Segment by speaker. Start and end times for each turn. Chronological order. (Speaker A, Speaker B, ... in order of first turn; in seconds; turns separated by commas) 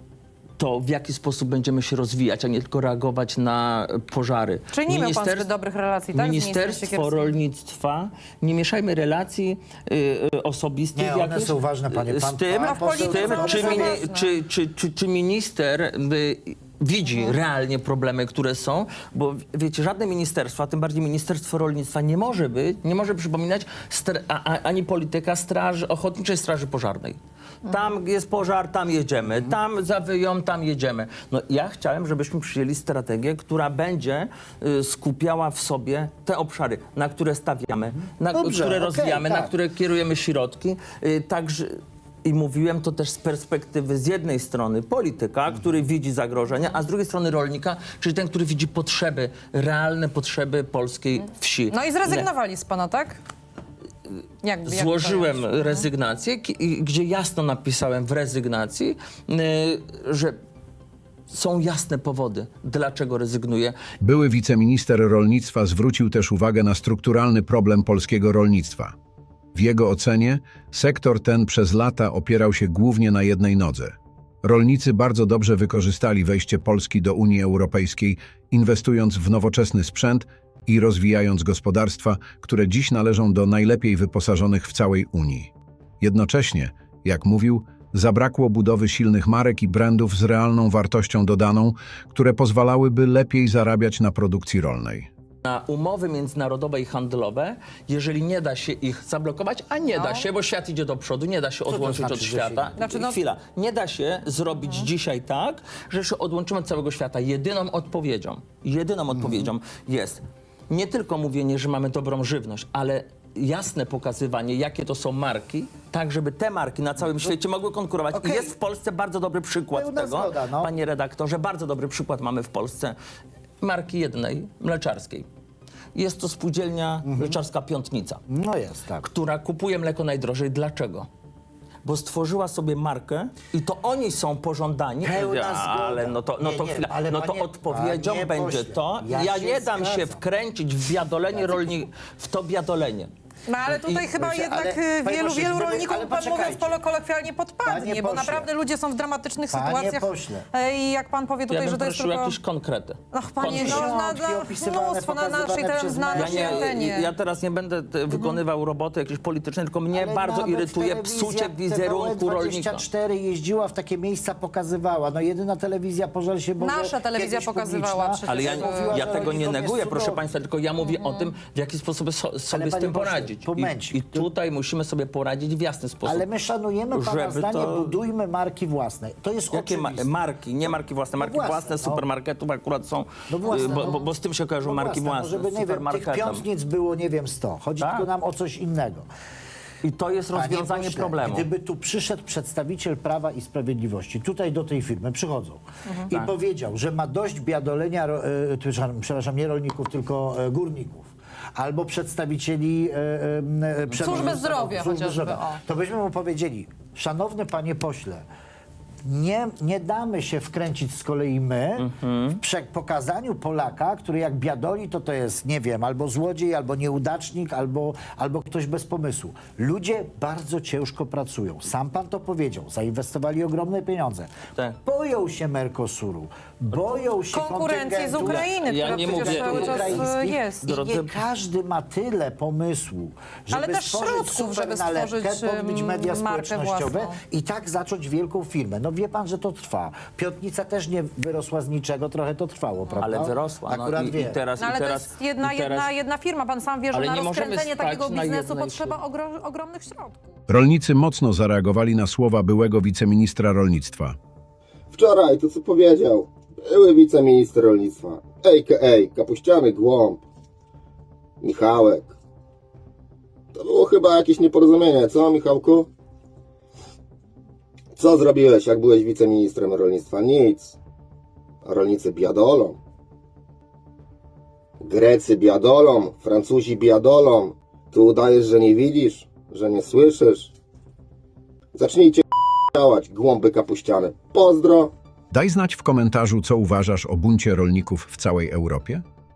Speaker A: 0.6-5.5, Speaker B: 4.7-7.4, Speaker A: 6.1-52.3, Speaker C: 10.9-14.0, Speaker B: 12.6-14.3, Speaker C: 38.3-39.5, Speaker B: 51.7-53.2, Speaker B: 54.4-55.9, Speaker A: 54.6-60.4, Speaker A: 61.3-63.7, Speaker D: 64.0-68.9, Speaker D: 69.5-95.1, Speaker A: 95.4-122.9, Speaker B: 99.9-100.3, Speaker C: 101.7-102.8, Speaker B: 102.8-103.2, Speaker C: 109.1-109.5, Speaker C: 118.1-118.5, Speaker C: 119.7-120.7, Speaker A: 123.6-125.2, Speaker A: 125.9-128.2, Speaker C: 127.0-127.4, Speaker C: 128.3-129.1, Speaker A: 129.0-131.1, Speaker A: 131.8-143.1, Speaker C: 135.0-140.2, Speaker C: 141.3-141.8, Speaker B: 143.5-152.4, Speaker A: 143.6-144.4, Speaker C: 144.2-146.8, Speaker C: 147.6-148.5, Speaker C: 149.5-150.4, Speaker A: 151.5-153.9, Speaker B: 153.1-157.1, Speaker C: 153.5-156.7, Speaker A: 156.1-162.8, Speaker B: 158.1-158.4, Speaker C: 159.9-170.3, Speaker B: 166.6-169.4, Speaker A: 168.2-176.3, Speaker B: 170.8-171.3, Speaker C: 172.5-174.3, Speaker C: 176.0-180.1, Speaker A: 176.9-178.0, Speaker A: 179.5-186.4, Speaker C: 180.6-182.1, Speaker C: 183.3-189.1, Speaker A: 187.8-188.1, Speaker A: 189.8-191.5, Speaker C: 190.3-208.2, Speaker A: 203.9-204.3, Speaker B: 204.0-205.6, Speaker C: 209.0-244.4, Speaker A: 211.8-212.4, Speaker B: 227.3-230.7, Speaker A: 228.2-231.2, Speaker B: 233.5-237.2, Speaker A: 243.0-245.9, Speaker B: 244.6-250.4, Speaker A: 246.9-249.0, Speaker D: 250.5-254.2, Speaker E: 254.9-260.2, Speaker E: 261.4-262.1, Speaker E: 263.5-265.9, Speaker E: 267.9-270.8, Speaker E: 271.6-272.8, Speaker E: 274.8-280.5, Speaker E: 281.7-284.9, Speaker D: 285.3-289.0